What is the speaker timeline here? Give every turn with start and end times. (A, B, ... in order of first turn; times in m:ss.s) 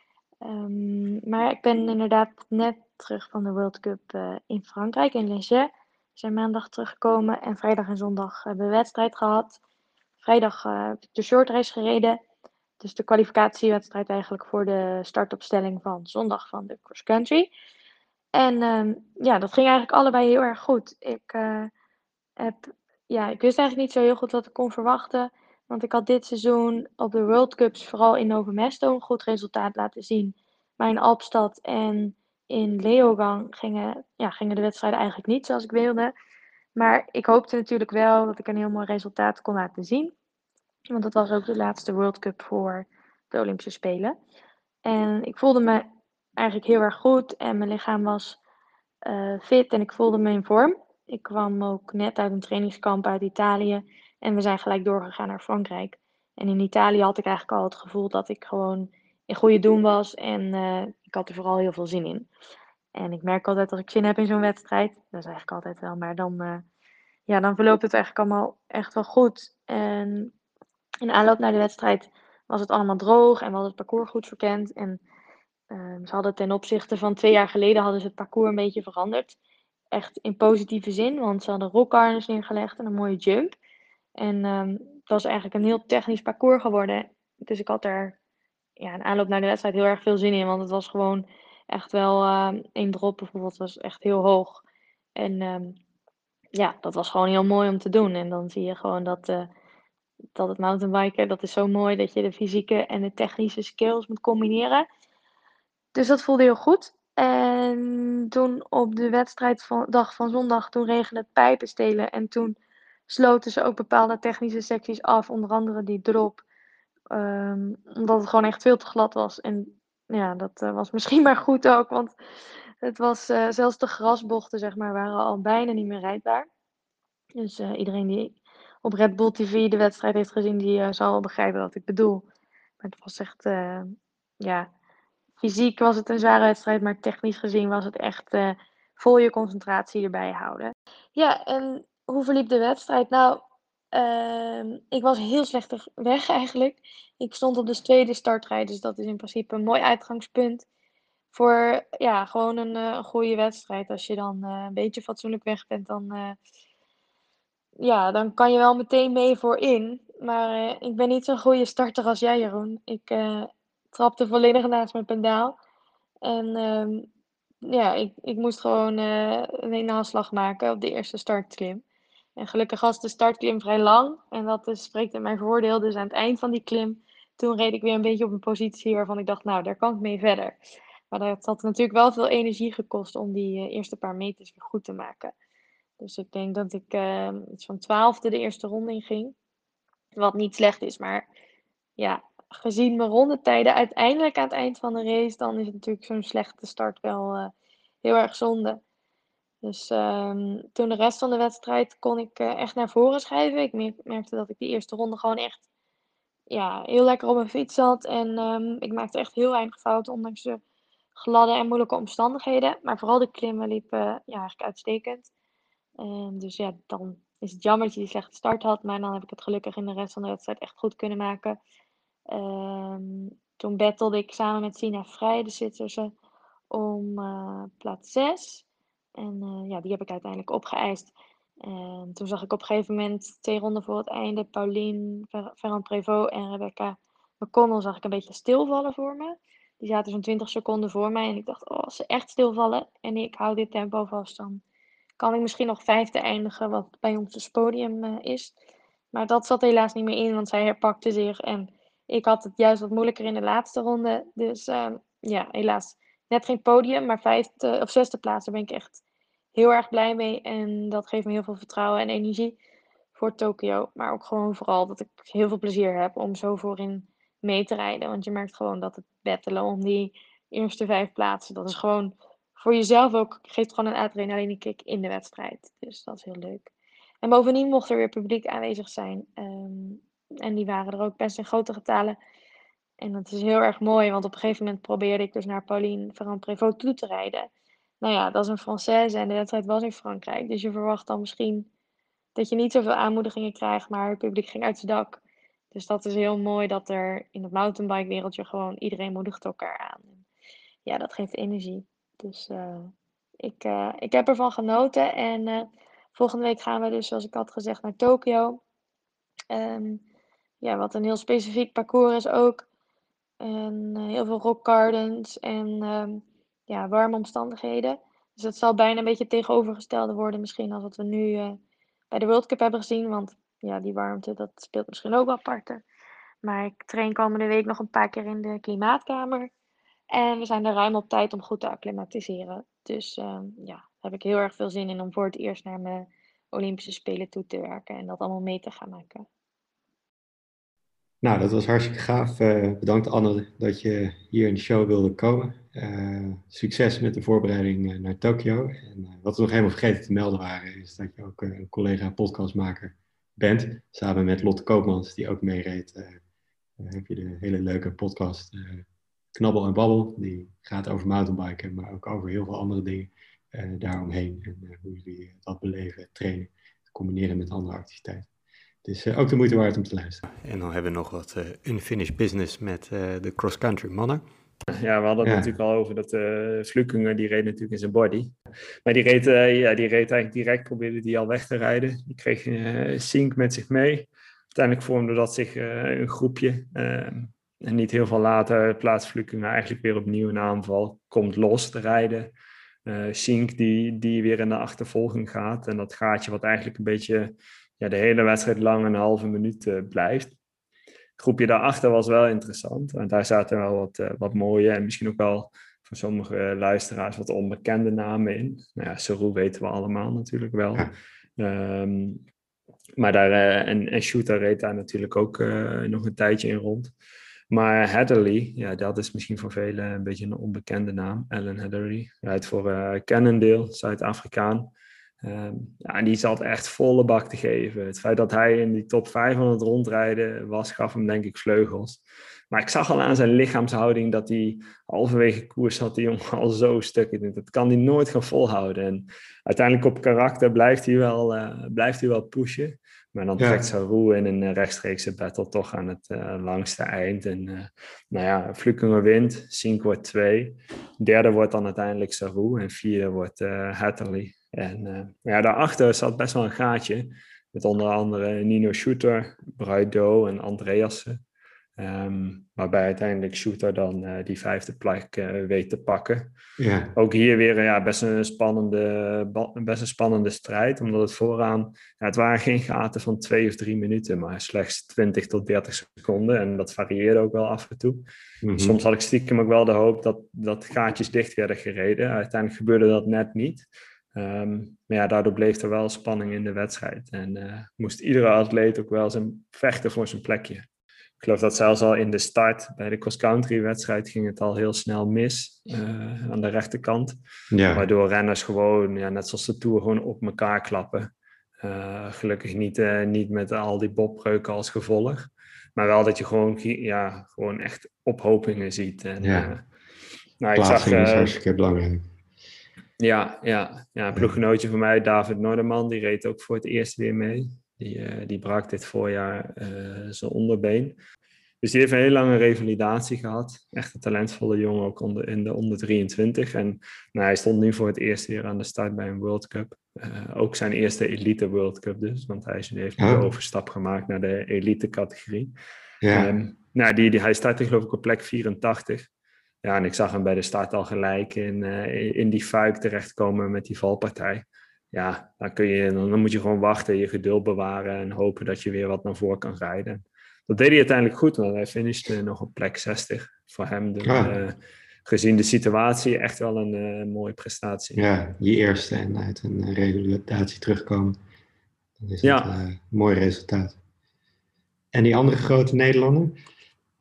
0:00.4-0:09.6 A
0:10.2-0:12.2 A
0:12.8-0:17.5 A
0:18.3-0:21.7 A
0:22.4-0:36.1 A
0:36.7-0:40.1 A
0:40.9-0:44.1 A
0:44.8-0:45.8 A
0:46.4-0:48.4 A
0:49.0-1:02.3 A
1:02.9-1:06.6 A
1:07.3-1:10.3 A
1:11.0-1:15.0 A
1:15.7-1:19.4 A
1:19.9-1:23.6 A
1:24.2-1:28.2 A
1:28.8-1:34.6 A
1:35.2-1:35.8 A
1:36.5-1:39.5 A
1:40.3-1:44.9 A
1:45.9-1:52.6 A
1:53.1-1:56.4 A
1:57.1-2:02.1 A
2:02.8-2:06.5 A
2:07.4-2:12.2 A
2:12.8-2:14.7 A
2:15.4-2:23.4 A
2:23.9-2:30.6 A
2:31.3-2:36.4 A
2:37.8-2:45.6 A
2:46.2-2:47.1 A
2:47.6-2:51.8 A
2:52.4-3:00.6 A
3:01.1-3:05.3 A
3:06.0-3:09.4 A
3:10.2-3:11.2 A
3:12.0-3:17.5 A
3:18.0-3:18.8 A
3:19.6-3:25.6 A
3:26.5-3:30.6 A
3:31.2-3:35.3 A
3:36.0-3:41.6 A
3:42.3-3:46.1 A
3:46.7-3:48.6 A
3:49.2-3:51.1 A
3:51.6-4:04.6 A
4:05.2-4:08.5 A
4:09.1-4:19.0 A
4:19.5-4:22.6 A
4:23.2-4:36.7 A
4:37.2-4:42.2 A
4:43.0-4:47.5 A
4:48.0-4:51.7 A
4:52.4-4:55.2 A
4:55.7-5:00.2 A
5:00.8-5:08.6 A
5:09.5-5:10.0 A
5:10.6-5:12.6 A
5:13.4-5:21.6 A
5:22.1-5:25.8 A
5:26.4-5:29.5 A
5:30.1-5:39.3 A
5:41.2-5:56.2 B
5:56.8-6:08.3 B
6:08.8-6:14.2 B
6:14.7-6:32.3 C
6:15.2-6:15.5 B
6:32.8-6:40.4 C
6:41.2-6:52.2 C
6:53.0-6:56.9 C
6:57.5-7:04.7 C
7:05.2-7:41.2 C
7:23.4-7:23.6 B
7:41.8-7:46.3 C
7:46.6-7:46.9 B
7:46.9-7:58.0 C
7:58.4-7:58.8 B
7:58.6-8:10.6 C
8:11.2-8:17.2 C
8:17.5-8:17.8 B
8:17.7-8:29.6 C
8:29.2-8:29.5 B
8:30.4-8:31.4 C
8:30.5-8:32.1 B
8:33.0-8:41.0 C
8:41.6-8:55.5 C
8:53.0-8:53.2 B
8:56.0-8:56.3 B
8:56.1-8:59.1 C
8:59.6-9:18.0 C
9:14.0-9:14.4 B
9:18.0-9:21.2 B
9:22.0-9:23.8 B
9:22.2-9:22.6 C
9:24.9-9:26.4 B